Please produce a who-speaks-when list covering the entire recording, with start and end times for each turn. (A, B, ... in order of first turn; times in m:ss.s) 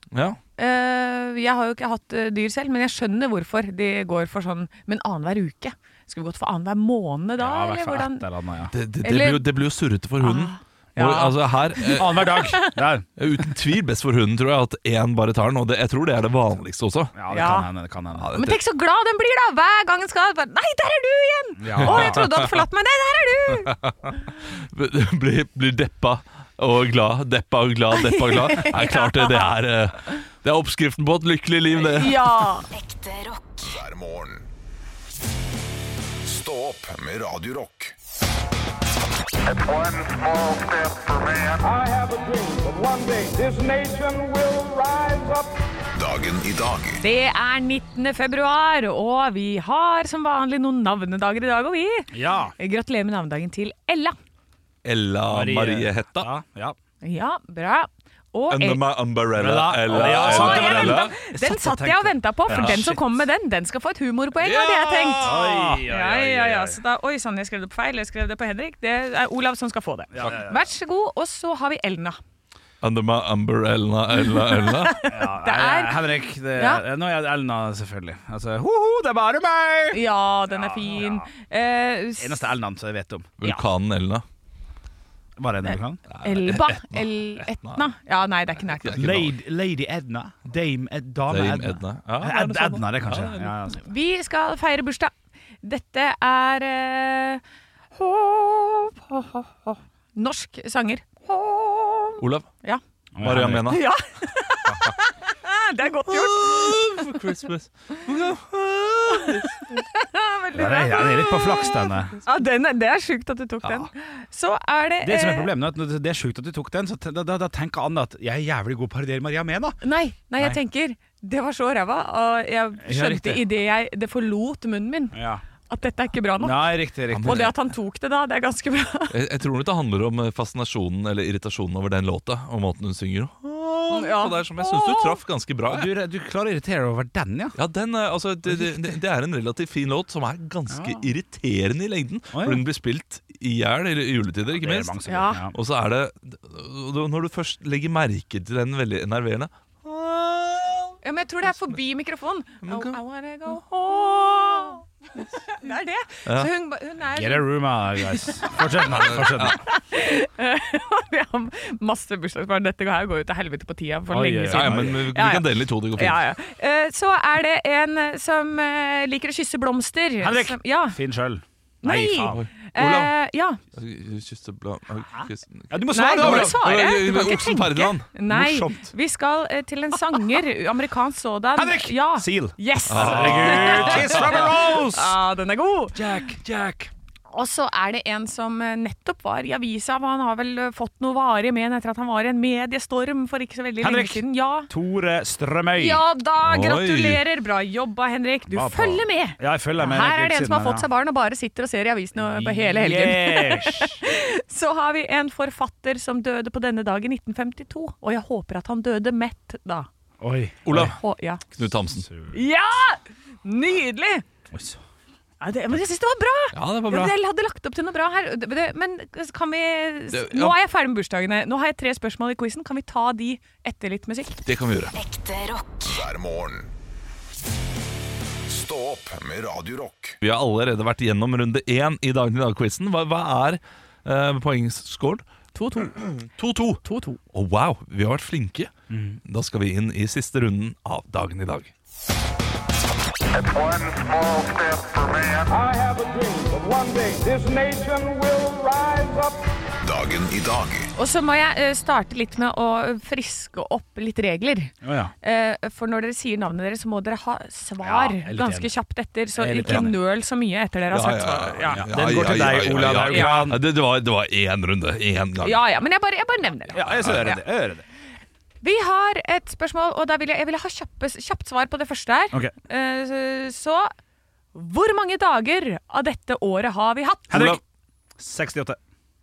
0:00.1-0:00.4 A
0:00.6-0:08.2 B
0:07.4-0:08.7 C
0:08.7-0:12.5 A
0:09.0-0:09.5 B
0:10.2-0:12.7 B
0:11.9-0:13.1 C
0:13.2-0:17.1 A
0:17.1-0:18.3 C
0:17.3-0:17.7 B
0:18.2-0:18.6 A
0:18.3-0:23.8 B
0:21.6-0:22.3 C
0:21.8-0:22.5 A
0:24.4-0:32.3 A
0:28.0-0:29.5 B
0:31.7-0:32.7 B
0:32.7-0:33.6 D
0:33.6-0:34.5 E
0:36.2-0:37.9 E
0:39.5-0:45.5 D
0:46.0-0:47.0 E
0:47.0-0:54.2 B
0:52.1-0:52.5 C
0:54.8-0:56.3 A
0:55.3-0:56.8 C
0:57.0-0:58.8 B
0:58.5-1:01.1 A
0:59.4-1:03.0 C
0:59.9-1:12.2 B
1:02.5-1:03.0 A
1:04.4-1:05.8 A
1:05.2-1:06.8 C
1:10.1-1:10.7 C
1:12.8-1:15.0 A
1:14.3-1:16.8 B
1:15.1-1:21.3 C
1:19.9-1:22.5 B
1:22.2-1:23.6 C
1:23.4-1:24.2 A
1:25.4-1:26.0 C
1:25.6-1:29.2 B
1:26.1-1:27.8 A
1:28.8-1:29.3 A
1:28.9-1:33.8 C
1:31.3-1:33.5 A
1:33.8-1:37.4 B
1:38.0-1:42.8 B
1:42.2-1:42.5 A
1:43.1-1:43.8 C
1:43.2-1:43.8 A
1:43.7-1:47.1 B
1:46.1-1:49.6 A
1:49.1-1:55.5 B
1:50.5-1:52.2 C
1:55.0-1:59.8 C
1:59.8-2:05.2 B
2:02.8-2:03.4 C
2:05.1-2:05.4 C
2:05.7-2:09.1 B
2:06.4-2:07.5 C
2:07.1-2:07.5 A
2:09.1-2:15.9 A
2:13.9-2:15.2 B
2:15.7-2:17.6 C
2:17.6-2:25.0 A
2:18.5-2:18.9 C
2:20.7-2:21.0 C
2:22.3-2:22.6 C
2:24.5-2:25.5 C
2:25.0-2:25.5 B
2:25.5-2:31.0 A
2:31.0-2:51.0 B
2:32.6-2:33.0 A
2:36.2-2:36.5 A
2:37.1-2:39.6 C
2:39.0-2:39.6 A
2:44.1-2:45.0 C
2:44.5-2:46.2 A
2:50.2-2:52.4 C
2:51.8-2:53.6 B
2:52.3-2:53.1 A
2:53.7-2:58.1 A
2:55.2-2:56.7 C
2:55.9-3:06.0 B
2:58.3-2:58.9 C
3:01.6-3:05.2 C
3:02.9-3:04.4 A
3:05.9-3:06.9 C
3:07.3-3:14.7 B
3:13.8-3:16.0 C
3:15.8-3:29.9 B
3:16.4-3:17.2 A
3:18.5-3:20.8 C
3:22.2-3:24.0 C
3:30.2-3:30.9 C
3:30.6-3:31.4 B
3:30.6-3:32.1 A
3:32.0-3:32.4 C
3:32.3-3:34.2 B
3:34.5-3:34.8 C
3:35.4-3:44.4 B
3:36.5-3:37.1 A
3:40.1-3:40.6 A
3:44.4-3:45.0 A
3:45.0-3:45.8 D
3:45.8-3:46.7 E
3:48.5-3:50.2 E
3:50.2-3:55.2 A
3:55.5-3:56.1 B
3:56.0-3:58.7 A
3:56.8-3:57.2 B
3:58.9-3:59.2 C
3:59.2-4:01.7 A
4:03.4-4:09.4 D
4:09.8-4:10.9 E
4:11.0-4:21.9 B
4:14.8-4:15.1 C
4:17.8-4:18.7 C
4:19.4-4:19.9 C
4:20.9-4:25.6 A
4:21.7-4:23.6 C
4:23.0-4:23.4 B
4:25.4-4:27.4 B
4:26.7-4:27.8 C
4:26.8-4:27.3 A
4:28.6-4:33.9 B
4:34.5-4:37.6 B
4:37.3-4:37.6 C
4:37.3-4:37.6 A
4:38.2-4:38.8 C